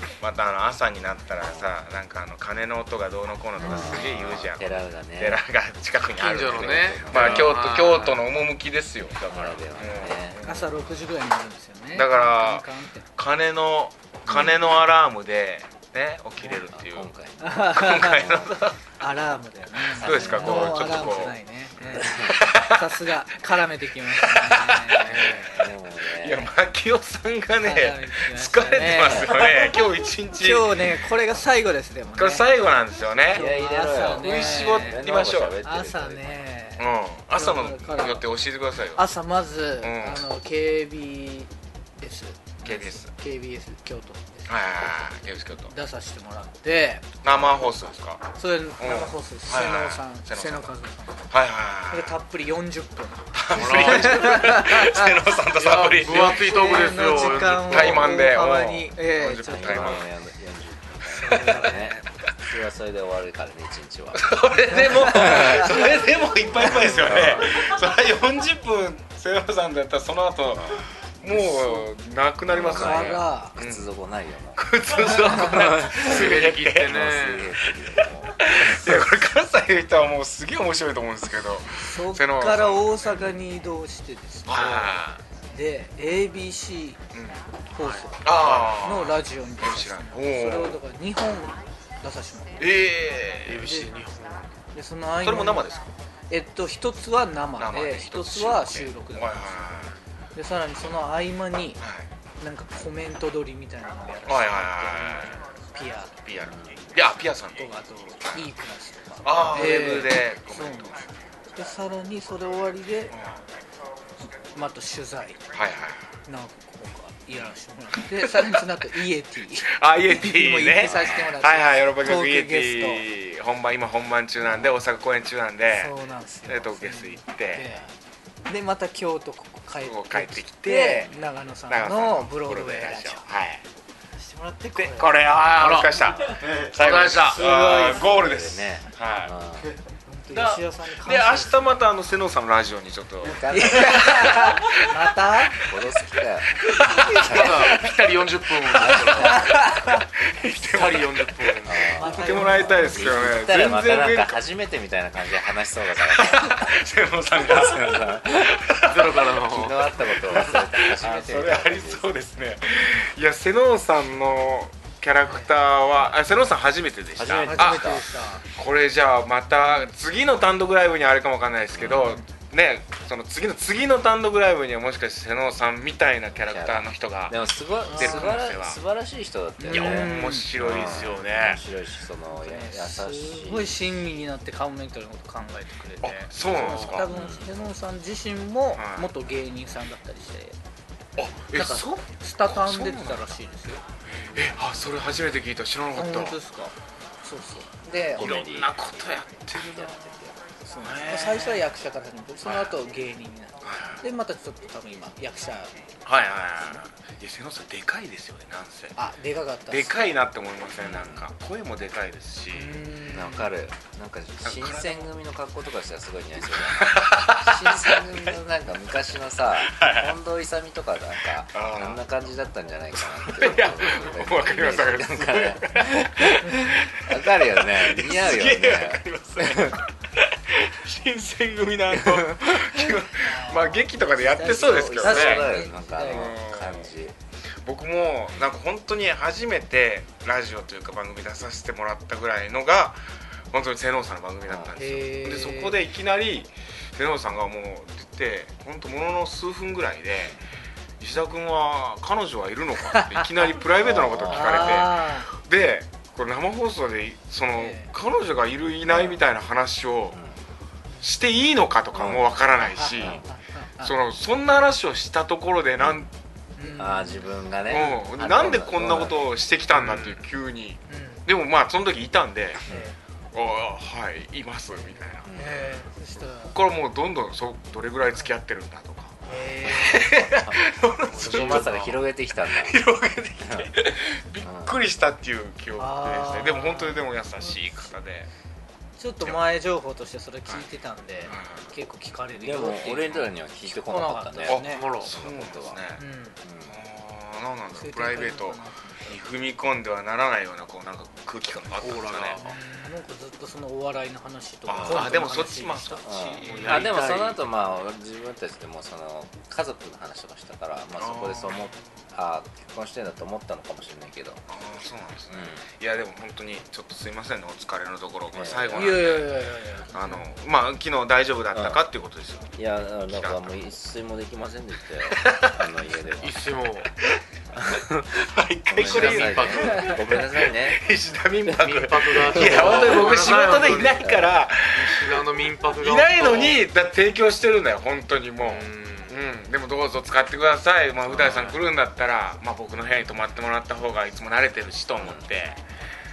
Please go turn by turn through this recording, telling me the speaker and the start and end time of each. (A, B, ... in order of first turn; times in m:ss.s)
0:00.2-0:10.7 A
0:03.6-0:04.0 B
0:03.6-0:05.4 C
0:06.2-0:08.2 D
0:06.5-0:07.6 C
0:09.3-0:11.0 C
0:10.4-0:13.1 B
0:11.9-0:12.6 A
0:13.2-0:17.1 A
0:16.4-0:18.5 C
0:17.4-0:18.3 B
0:17.7-0:18.8 A
0:18.9-0:25.4 B
0:19.9-0:21.4 A
0:20.0-0:21.3 C
0:22.0-0:22.9 A
0:22.0-0:22.4 C
0:24.2-0:25.5 A
0:25.0-0:25.5 D
0:25.5-0:26.5 C
0:26.2-0:30.8 A
0:27.6-0:29.8 B
0:29.0-0:29.3 C
0:30.4-0:32.5 B
0:32.2-0:33.4 A
0:33.3-0:36.4 C
0:33.3-0:35.0 B
0:34.2-0:35.6 A
0:35.6-0:38.3 B
0:36.8-0:39.0 A
0:39.0-0:44.5 B
0:39.8-0:40.2 A
0:42.6-0:43.1 A
0:44.5-0:45.7 A
0:45.6-0:47.1 B
0:47.2-0:50.7 A
0:48.4-0:51.3 B
0:51.3-0:52.2 A
0:51.9-0:55.1 B
0:53.3-1:00.0 A
0:53.6-0:54.5 D
0:55.6-0:58.1 D
0:56.1-1:00.0 B
0:59.4-1:04.3 C
1:01.1-1:02.0 B
1:01.4-1:01.8 A
1:04.2-1:13.8 A
1:04.9-1:05.7 B
1:04.9-1:05.9 C
1:06.6-1:07.4 C
1:10.5-1:10.8 C
1:11.2-1:11.9 B
1:12.4-1:14.7 C
1:12.7-1:13.6 B
1:14.6-1:17.0 A
1:15.2-1:19.1 C
1:15.9-1:17.6 D
1:18.4-1:22.9 A
1:21.8-1:27.0 B
1:24.5-1:25.2 A
1:27.1-1:27.4 A
1:27.7-1:32.6 B
1:27.8-1:28.7 D
1:28.2-1:30.8 A
1:32.6-1:33.6 A
1:33.5-1:34.5 D
1:33.5-1:33.9 B
1:34.7-1:35.7 B
1:35.2-1:35.9 A
1:36.3-1:39.5 B
1:37.6-1:40.0 A
1:40.4-1:41.8 B
1:41.8-1:42.1 A
1:42.4-1:46.1 B
1:44.3-1:45.4 A
1:46.2-1:47.6 A
1:46.4-1:46.9 C
1:47.6-1:53.2 B
1:49.2-1:51.0 A
1:53.1-1:53.4 A
1:54.5-1:55.4 B
1:55.5-1:56.1 A
1:56.3-2:03.0 B
1:59.7-2:05.9 A
2:05.7-2:07.9 B
2:06.5-2:07.8 A
2:08.5-2:13.2 B
2:09.8-2:11.1 A
2:11.7-2:13.6 A
2:14.2-2:15.2 B
2:14.8-2:19.3 A
2:15.4-2:17.4 D
2:17.2-2:18.2 B
2:17.6-2:19.7 C
2:20.1-2:21.8 B
2:20.3-2:20.6 D
2:21.0-2:25.0 A
2:23.2-2:24.3 C
2:23.5-2:25.6 B
2:25.6-2:26.5 C
2:26.8-2:27.9 B
2:26.9-2:27.4 A
2:27.1-2:27.9 C
2:27.2-2:29.5 D
2:28.8-2:29.4 C
2:29.2-2:30.0 B
2:29.9-2:34.4 A
2:30.6-2:32.0 D
2:31.6-2:36.8 C
2:32.0-2:33.1 B
2:36.1-2:39.3 A
2:37.4-2:38.6 C
2:38.9-2:40.8 D
2:39.4-2:42.2 C
2:40.3-2:48.0 A
2:45.3-2:45.5 B
2:47.1-2:48.0 C
2:47.4-2:48.4 B
2:48.6-2:58.8 A
2:49.6-2:49.9 B
2:51.7-2:52.2 C
2:56.5-3:03.9 C
2:57.9-2:58.4 B
2:59.6-3:00.5 B
2:59.7-3:01.6 A
3:02.3-3:10.6 B
3:06.0-3:07.1 A
3:06.7-3:07.0 D
3:07.1-3:07.5 C
3:08.8-3:09.1 A
3:11.2-3:13.4 A
3:11.5-3:13.8 B
3:14.1-3:16.4 A
3:14.3-3:14.7 C
3:16.0-3:18.4 B
3:18.2-3:18.8 C
3:18.2-3:20.0 A
3:19.5-3:20.3 C
3:20.7-3:25.7 B
3:20.8-3:21.6 A
3:22.4-3:22.7 A
3:23.6-3:24.0 A
3:26.0-3:29.0 A
3:29.0-3:30.0 B
3:29.7-3:32.9 A
3:30.8-3:31.2 C
3:32.5-3:33.5 B
3:33.1-3:49.8 C
3:34.4-3:35.1 A
3:36.6-3:38.2 A
3:39.7-3:40.2 A
3:41.5-3:42.0 A
3:43.0-3:49.9 A
3:50.5-3:55.5 A
3:51.9-3:52.8 C
3:53.2-3:56.4 B
3:54.4-3:57.1 C
3:56.1-3:56.9 A
3:57.6-4:03.0 A
4:03.5-4:10.4 A
4:04.5-4:04.7 C
4:04.8-4:05.8 B
4:11.0-4:20.2 A
4:13.8-4:14.9 C
4:14.3-4:15.3 B
4:17.6-4:17.9 B
4:18.9-4:19.2 C
4:20.1-4:20.4 C
4:21.0-4:23.2 A
4:21.9-4:23.3 C
4:22.7-4:23.9 B
4:23.8-4:26.1 A
4:25.8-4:26.1 C
4:26.6-4:27.3 B
4:26.7-4:29.3 C
4:27.7-4:32.6 A
4:29.8-4:30.2 D
4:30.9-4:31.3 B
4:32.7-4:33.0 B
4:33.3-4:35.3 A
4:35.2-4:35.7 C
4:35.3-4:36.6 B
4:36.5-4:41.9 A
4:39.2-4:40.1 B
4:39.9-4:40.6 C
4:41.1-4:42.0 D
4:41.2-4:42.8 C
4:42.5-4:48.3 A
4:43.4-4:43.7 C
4:44.4-4:44.8 C
4:45.8-4:47.9 B
4:49.0-4:54.9 B
4:51.3-4:51.7 A
4:52.4-4:55.8 C
4:54.5-4:56.0 A
4:54.7-4:55.1 D
4:56.0-4:56.4 B
4:56.4-4:56.8 C
4:56.7-5:02.6 A
4:57.7-4:59.2 B
5:01.8-5:02.6 D
5:02.4-5:06.1 B
5:04.7-5:07.0 A
5:06.0-5:14.4 C
5:06.4-5:07.4 D
5:11.0-5:11.7 A
5:14.5-5:19.3 A
5:15.3-5:15.6 C
5:18.3-5:19.0 C
5:18.7-5:20.3 B
5:19.9-5:22.6 A
5:21.5-5:21.9 C
5:22.6-5:26.5 C
5:23.1-5:23.5 A
5:25.1-5:25.7 A
5:26.2-5:26.9 D
5:27.6-5:30.8 C
5:28.2-5:35.3 A
5:28.8-5:30.2 D
5:31.5-5:34.1 D
5:32.3-5:33.1 C
5:34.0-5:34.4 C
5:34.7-5:36.6 D
5:35.8-5:45.6 A
5:38.4-5:39.2 D
5:41.1-5:41.5 C
5:41.2-5:41.6 D
5:45.0-5:45.3 C